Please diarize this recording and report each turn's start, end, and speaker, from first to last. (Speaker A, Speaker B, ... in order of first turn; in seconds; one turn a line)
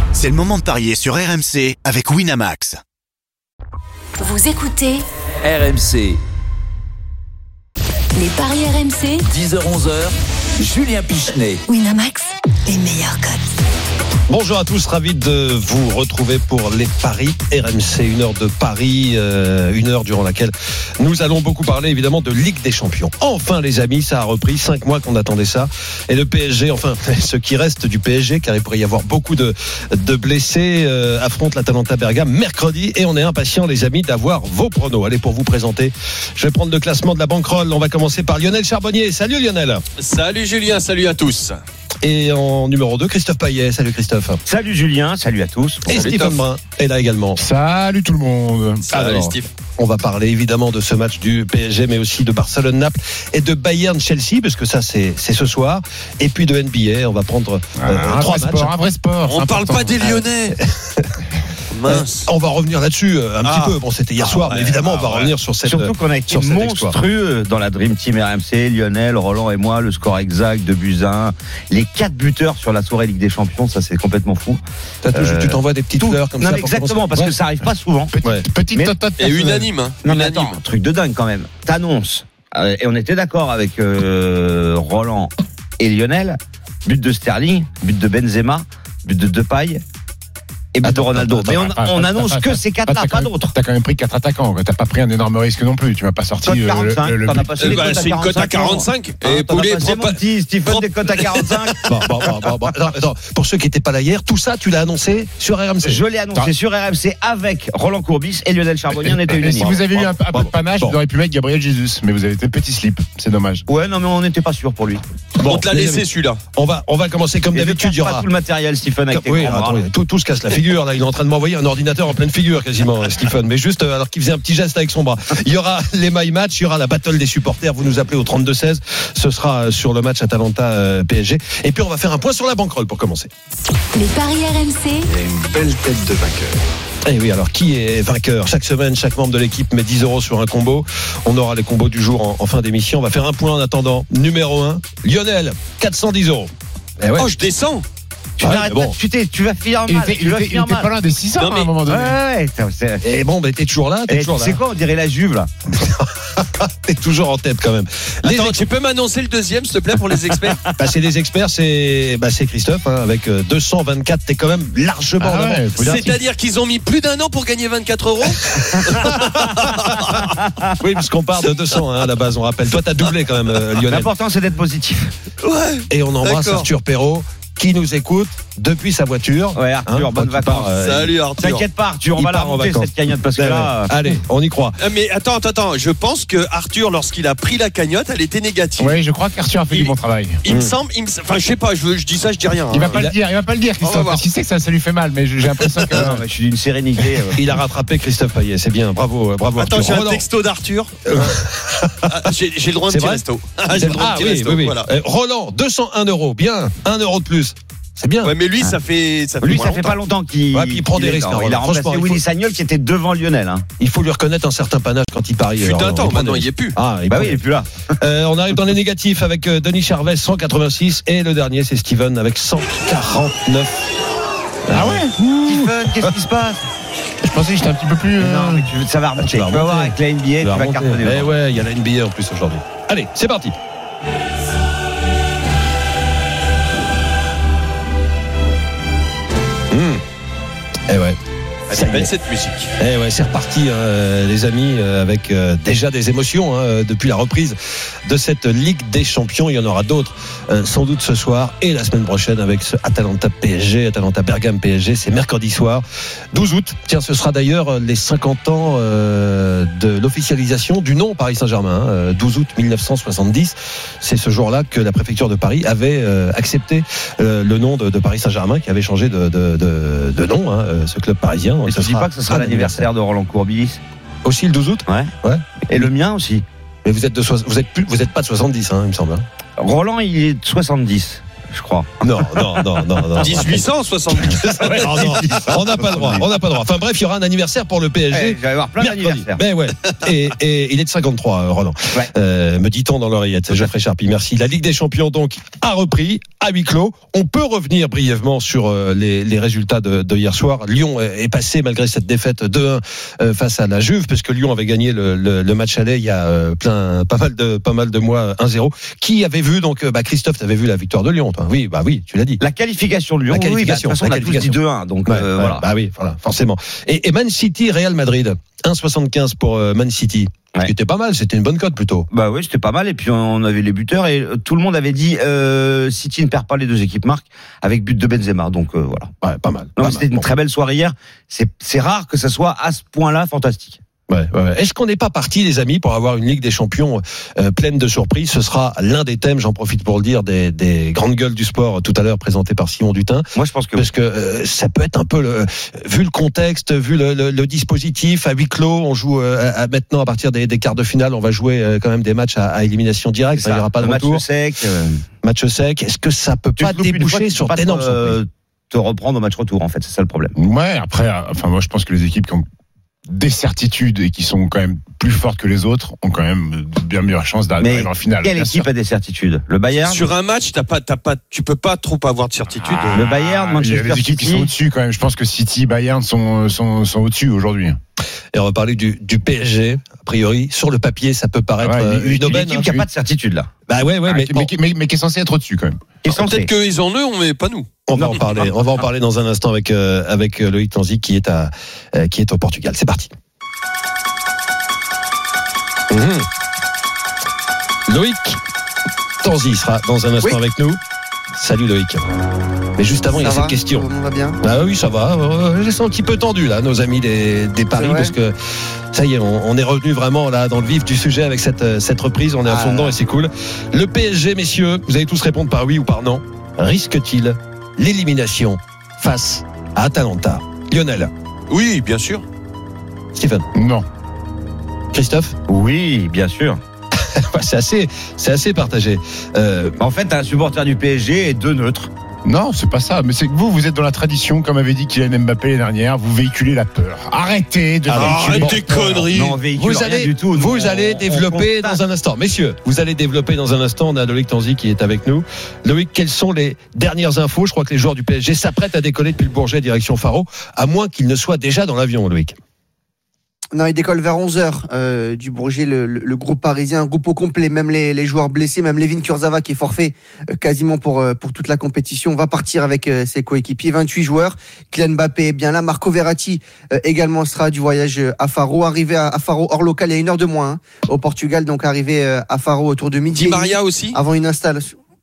Speaker A: 0.1-2.8
Speaker B: 4.2-5.0
Speaker C: 5.4-6.2
Speaker B: 8.2-9.2
Speaker C: 9.3-11.6
Speaker B: 11.7-13.6
Speaker D: 14.3-39.8
Speaker E: 40.0-41.6
Speaker D: 42.0-44.4
Speaker F: 44.5-46.1
Speaker D: 45.9-47.4
Speaker E: 45.9-46.4
Speaker G: 47.4-48.9
Speaker E: 48.9-49.5
Speaker D: 48.9-58.7
Speaker G: 57.8-60.0
Speaker E: 59.3-60.6
Speaker D: 60.0-61.2
Speaker E: 61.7-62.3
Speaker D: 61.9-67.0
Speaker E: 63.4-65.3
Speaker F: 65.7-74.6
Speaker D: 75.0-77.3
Speaker F: 75.1-78.2
Speaker G: 78.2-79.7
Speaker E: 79.2-80.6
Speaker F: 80.0-89.8
Speaker F: 90.7-93.5
Speaker G: 90.8-98.1
Speaker F: 96.4-101.9
Speaker E: 97.6-102.3
Speaker D: 101.8-106.0
Speaker F: 105.8-109.8
Speaker D: 109.0-111.0
Speaker G: 109.4-113.7
Speaker F: 113.7-115.0
Speaker D: 115.4-118.3
Speaker E: 115.4-116.4
Speaker F: 117.5-119.9
Speaker D: 119.1-133.3
Speaker B: 133.9-135.1
Speaker C: 135.1-136.7
Speaker D: 137.1-147.3
Speaker E: 147.2-147.8
Speaker F: 148.4-150.9
Speaker D: 148.4-149.0
Speaker G: 149.9-152.2
Speaker E: 151.4-151.7
Speaker F: 151.9-153.2
Speaker D: 153.0-154.6
Speaker F: 154.1-155.5
Speaker D: 155.8-158.6
Speaker E: 158.2-160.7
Speaker D: 160.8-165.7
Speaker G: 165.2-166.2
Speaker E: 165.8-170.3
Speaker D: 168.4-169.4
Speaker F: 170.2-170.7
Speaker D: 170.8-174.1
Speaker E: 172.7-173.8
Speaker F: 173.9-175.1
Speaker E: 175.4-176.7
Speaker D: 175.9-180.7
Speaker F: 179.6-183.9
Speaker E: 180.7-181.6
Speaker D: 182.2-184.8
Speaker E: 184.8-189.0
Speaker G: 188.8-190.4
Speaker E: 190.4-193.1
Speaker D: 190.5-190.7
Speaker G: 192.7-196.2
Speaker E: 193.8-194.2
Speaker F: 195.9-197.4
Speaker D: 197.3-200.2
Speaker E: 199.6-201.4
Speaker D: 201.1-202.3
Speaker E: 202.1-204.9
Speaker D: 202.9-203.2
Speaker D: 203.7-208.3
Speaker E: 208.2-210.0
Speaker F: 209.4-213.7
Speaker D: 210.5-212.2
Speaker D: 213.8-217.4
Speaker E: 215.6-216.8
Speaker F: 217.1-217.9
Speaker D: 218.0-223.9
Speaker D: 224.7-225.1
Speaker G: 224.7-225.7
Speaker F: 224.7-226.7
Speaker G: 227.2-228.7
Speaker F: 228.2-231.3
Speaker D: 229.2-233.5
Speaker D: 239.7-240.0
Speaker D: 240.9-241.2
Speaker E: 241.7-242.7
Speaker D: 241.7-242.1
Speaker D: 242.8-272.9
Speaker F: 271.7-273.8
Speaker D: 274.2-275.9
Speaker F: 274.9-275.1
Speaker F: 275.7-276.4
Speaker D: 276.9-279.2
Speaker F: 279.6-283.4
Speaker D: 282.0-283.7
Speaker E: 283.2-285.2
Speaker D: 284.2-312.4
Speaker G: 284.6-285.5
Speaker F: 284.8-286.2
Speaker F: 288.1-289.4
Speaker F: 312.4-315.7
Speaker D: 313.3-322.1
Speaker F: 322.1-329.1
Speaker D: 329.2-330.3
Speaker F: 329.8-333.8
Speaker D: 334.1-354.2
Speaker F: 343.4-343.9
Speaker F: 353.4-355.1
Speaker D: 355.2-358.2
Speaker F: 356.6-360.3
Speaker G: 360.4-362.4
Speaker G: 363.1-368.7
Speaker F: 367.6-370.0
Speaker E: 369.9-373.1
Speaker G: 372.6-377.8
Speaker F: 372.9-374.5
Speaker D: 378.3-382.7
Speaker G: 381.6-382.9
Speaker F: 382.2-383.5
Speaker D: 383.7-384.5
Speaker G: 384.1-385.8
Speaker F: 386.0-386.5
Speaker E: 386.1-388.2
Speaker D: 387.9-393.1
Speaker F: 388.0-388.3
Speaker D: 395.9-396.3
Speaker D: 397.9-398.4
Speaker D: 399.2-400.8
Speaker D: 401.3-402.0
Speaker D: 402.8-403.9
Speaker H: 403.2-404.4
Speaker D: 404.4-408.4
Speaker H: 407.7-408.1
Speaker D: 408.9-421.1
Speaker H: 412.5-412.9
Speaker E: 421.5-422.2
Speaker D: 423.1-423.5
Speaker G: 423.5-423.9
Speaker D: 424.9-425.4
Speaker F: 425.5-426.6
Speaker D: 427.1-429.8
Speaker F: 429.8-431.9
Speaker G: 432.2-439.1
Speaker D: 437.9-438.6
Speaker E: 437.9-439.4
Speaker F: 438.9-441.8
Speaker D: 439.5-452.4
Speaker H: 453.5-474.8
Speaker E: 473.1-474.0